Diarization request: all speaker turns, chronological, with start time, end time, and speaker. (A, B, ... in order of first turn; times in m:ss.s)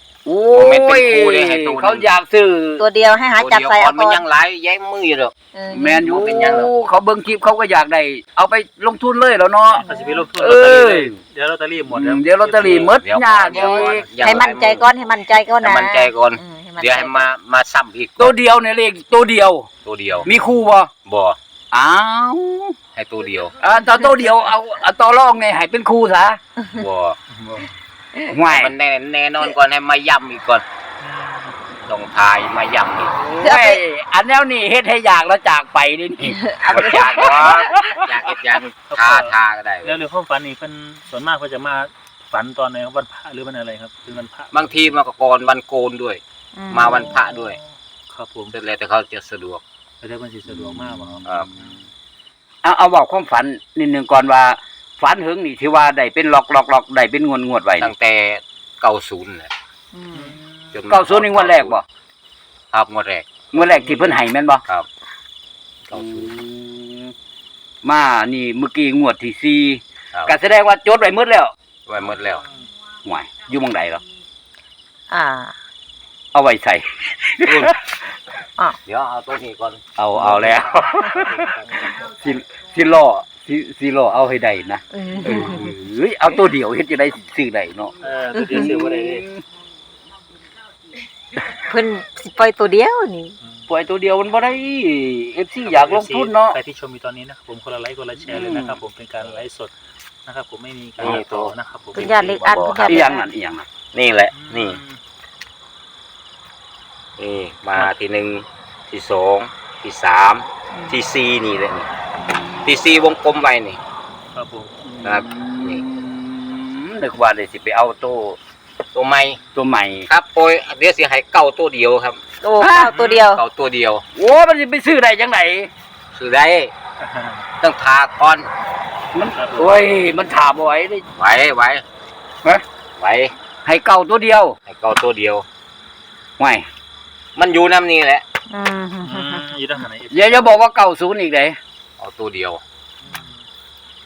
0:00.3-0:02.9 A
0:00.5-0:02.1 B
0:02.8-0:04.2 C
0:03.4-0:05.3 B
0:05.5-0:06.0 C
0:05.7-0:09.8 A
0:06.0-0:06.7 B
0:09.7-0:12.9 D
0:09.8-0:10.2 C
0:10.4-0:11.2 A
0:11.9-0:14.1 A
0:12.6-0:15.0 B
0:13.5-0:17.3 C
0:15.6-0:18.3 B
0:18.2-0:19.7 A
0:19.8-0:20.3 B
0:20.1-0:20.5 D
0:20.2-0:20.9 A
0:21.0-0:21.4 B
0:21.7-0:22.8 A
0:23.0-0:23.6 B
0:23.6-0:26.4 A
0:26.7-0:27.2 B
0:27.3-0:27.7 D
0:28.3-0:28.7 A
0:28.5-0:30.6 B
0:31.0-0:31.6 D
0:31.9-0:33.2 B
0:33.1-0:38.0 A
0:33.4-0:33.8 C
0:36.3-0:38.0 C
0:36.7-0:40.0 B
0:38.9-0:44.7 D
0:44.5-0:47.6 B
0:46.6-0:47.3 C
0:48.1-0:48.6 D
0:48.5-0:49.6 B
0:50.0-0:51.8 D
0:51.2-0:51.5 B
0:52.6-0:57.9 A
0:57.8-0:59.5 B
0:59.9-1:00.4 C
1:00.1-1:00.6 D
1:00.7-1:01.8 B
1:00.9-1:01.8 A
1:02.7-1:03.4 B
1:03.5-1:04.2 D
1:03.5-1:04.6 A
1:05.9-1:06.3 B
1:05.9-1:07.1 A
1:07.8-1:11.5 A
1:11.9-1:12.4 B
1:12.3-1:12.7 D
1:13.0-1:14.0 A
1:15.1-1:15.5 C
1:16.3-1:17.8 A
1:17.4-1:17.8 B
1:18.9-1:19.8 B
1:20.0-1:27.9 A
1:20.2-1:22.0 D
1:24.9-1:25.7 C
1:25.2-1:25.7 B
1:28.0-1:29.3 D
1:28.4-1:28.7 C
1:28.5-1:29.4 A
1:31.6-1:33.4 C
1:33.7-1:36.6 A
1:35.6-1:39.7 D
1:38.3-1:38.8 A
1:40.3-1:42.1 D
1:41.0-1:43.1 B
1:42.0-1:43.2 C
1:42.8-1:43.7 A
1:43.9-1:44.8 B
1:44.3-1:45.0 D
1:47.2-1:51.9 B
1:52.6-1:53.8 B
1:54.4-1:55.0 D
1:55.0-1:58.4 A
1:55.0-1:55.8 B
1:58.9-1:59.4 B
1:59.6-2:00.1 A
2:00.1-2:02.2 B
2:02.4-2:03.4 C
2:02.6-2:02.9 A
2:02.9-2:03.3 D
2:03.3-2:04.0 B
2:04.2-2:05.7 A
2:06.1-2:06.7 B
2:07.0-2:07.4 D
2:07.6-2:08.5 B
2:09.1-2:11.0 A
2:09.3-2:09.8 D
2:11.2-2:11.8 B
2:13.0-2:13.3 B
2:13.6-2:14.6 A
2:14.7-2:15.4 B
2:16.4-2:16.7 A
2:17.4-2:18.2 B
2:18.5-2:19.4 C
2:19.0-2:20.6 D
2:20.1-2:21.6 A
2:22.0-2:22.6 B
2:23.0-2:23.4 D